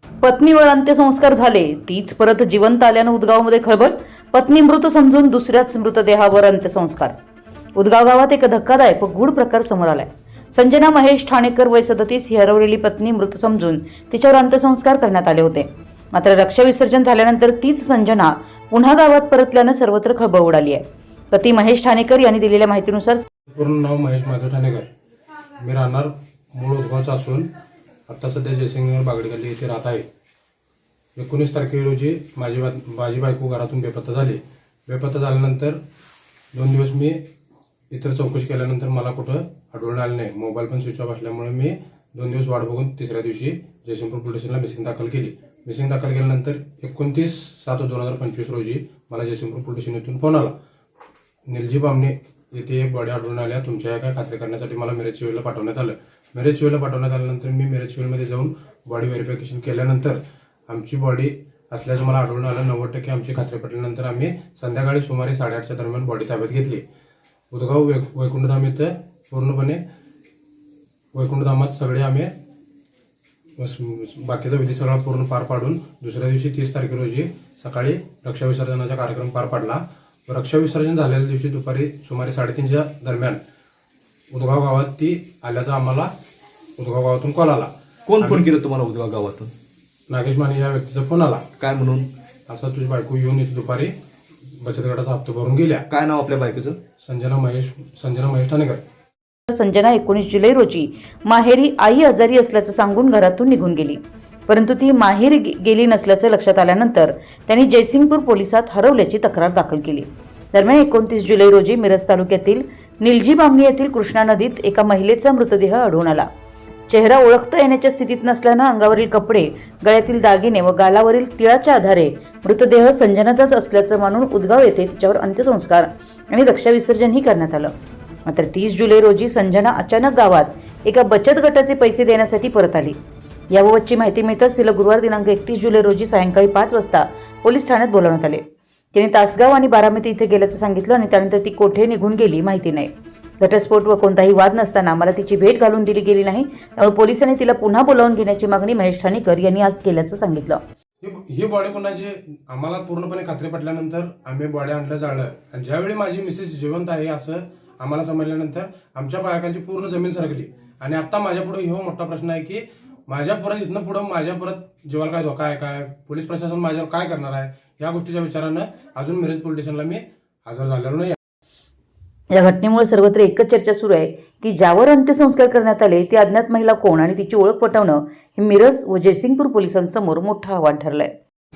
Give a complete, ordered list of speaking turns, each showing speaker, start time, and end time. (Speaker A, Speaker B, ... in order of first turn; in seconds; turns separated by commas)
Speaker A: 0.2-7.1, Speaker A: 7.8-23.2, Speaker B: 23.5-24.8, Speaker B: 25.6-27.5, Speaker B: 28.1-30.0, Speaker B: 31.2-35.8, Speaker B: 36.5-37.2, Speaker B: 37.9-50.5, Speaker B: 51.5-66.8, Speaker B: 67.5-69.8, Speaker B: 71.1-72.3, Speaker B: 73.6-83.4, Speaker B: 84.3-86.1, Speaker B: 86.8-88.5, Speaker C: 88.1-89.5, Speaker B: 90.1-91.5, Speaker C: 91.6-92.1, Speaker B: 92.5-93.9, Speaker B: 94.6-95.8, Speaker C: 95.9-96.8, Speaker B: 97.0-98.8, Speaker A: 99.5-116.3, Speaker A: 116.9-127.7, Speaker A: 128.2-133.0, Speaker A: 133.5-138.4, Speaker A: 138.9-150.6, Speaker B: 151.0-171.2, Speaker A: 172.3-181.1